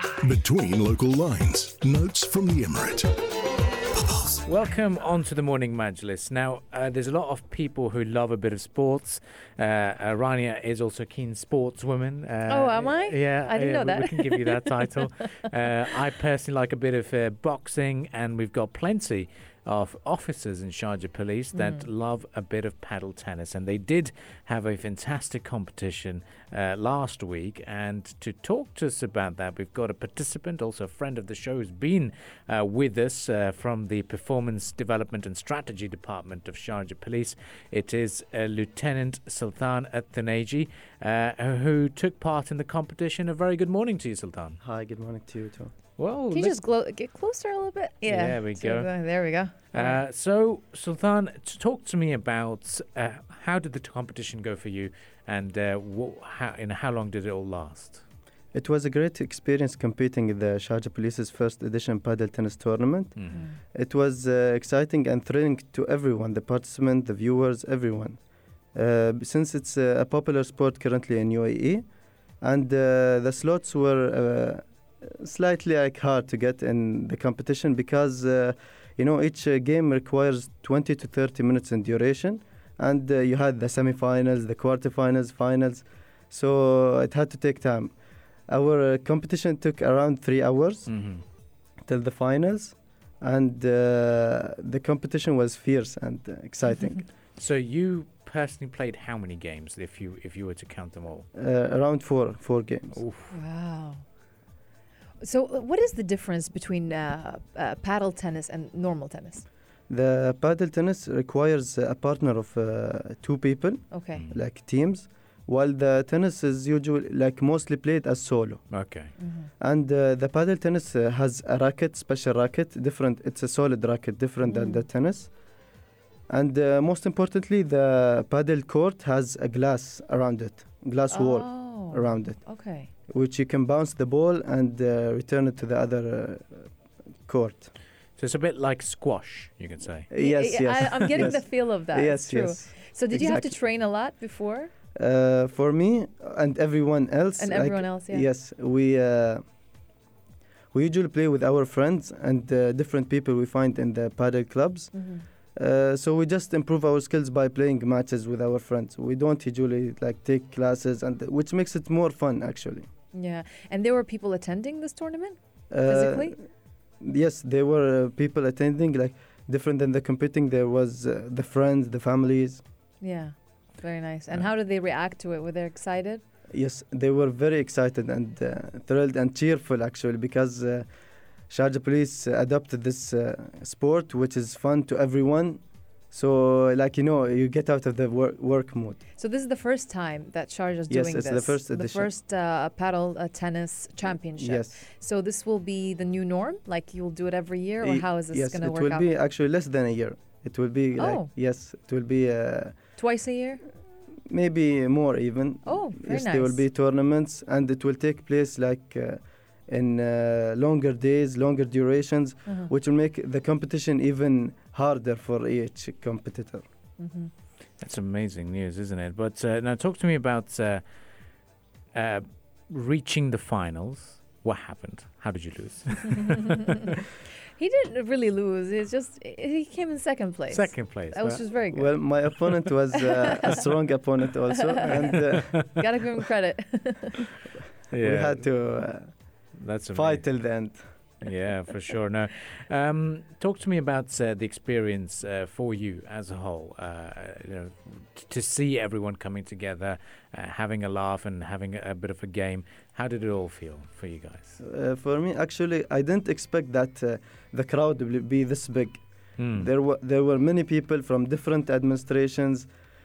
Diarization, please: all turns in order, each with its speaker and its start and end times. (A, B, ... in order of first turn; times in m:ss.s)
0:00.2-0:03.1 A
0:04.1-0:04.4 A
0:04.4-0:44.6 B
0:12.5-0:15.1 C
0:21.5-0:21.9 C
0:44.6-0:45.7 D
0:46.0-0:46.6 B
0:46.3-0:50.0 C
0:48.0-0:48.9 B
0:49.7-0:58.0 B
0:58.5-1:03.2 D
1:03.2-1:03.4 B
1:03.7-1:08.2 D
1:08.8-1:11.8 D
1:12.4-1:27.9 D
1:28.5-1:30.9 D
1:30.9-1:31.2 B
1:31.9-1:37.1 D
1:37.4-1:41.3 B
1:41.4-1:43.0 D
1:43.0-1:43.3 B
1:43.3-1:44.0 C
1:45.2-1:49.4 C
1:49.9-1:58.7 D
1:53.9-1:54.2 C
1:58.7-1:59.1 B
1:59.2-1:59.5 C
1:59.6-2:05.3 D
2:04.4-2:04.8 C
2:06.3-2:12.4 D
2:11.1-2:12.9 C
2:13.1-2:16.7 D
2:17.3-2:17.7 D
2:18.2-2:20.1 B
2:20.1-2:23.6 D
2:20.1-2:24.7 C
2:25.0-2:29.4 D
2:27.4-2:28.3 C
2:30.7-2:34.9 D
2:34.9-2:35.2 C
2:35.6-2:42.9 D
2:43.1-2:46.3 C
2:45.7-2:46.4 D
2:47.0-2:52.6 D
2:53.0-2:56.2 C
2:56.5-3:00.9 D
3:01.5-3:05.6 D
3:06.1-3:09.0 D
3:09.2-3:19.1 C
3:10.9-3:12.1 D
3:14.4-3:14.8 D
3:17.8-3:22.8 D
3:21.0-3:21.3 C
3:23.0-3:23.6 C
3:24.3-3:36.6 D
3:25.6-3:26.6 C
3:32.5-3:32.7 C
3:37.0-3:37.3 C
3:37.8-3:40.8 B
3:42.0-3:46.6 B
3:46.2-3:46.8 C
3:47.6-3:53.6 C
3:50.5-3:51.5 B
3:51.7-3:55.6 D
3:54.5-3:57.3 C
3:57.9-3:58.5 B
3:57.9-3:59.2 D
3:59.6-4:00.3 B
3:59.9-4:00.9 D
4:01.2-4:14.6 B
4:14.6-4:19.0 D
4:19.4-4:19.7 B
4:19.6-4:22.7 D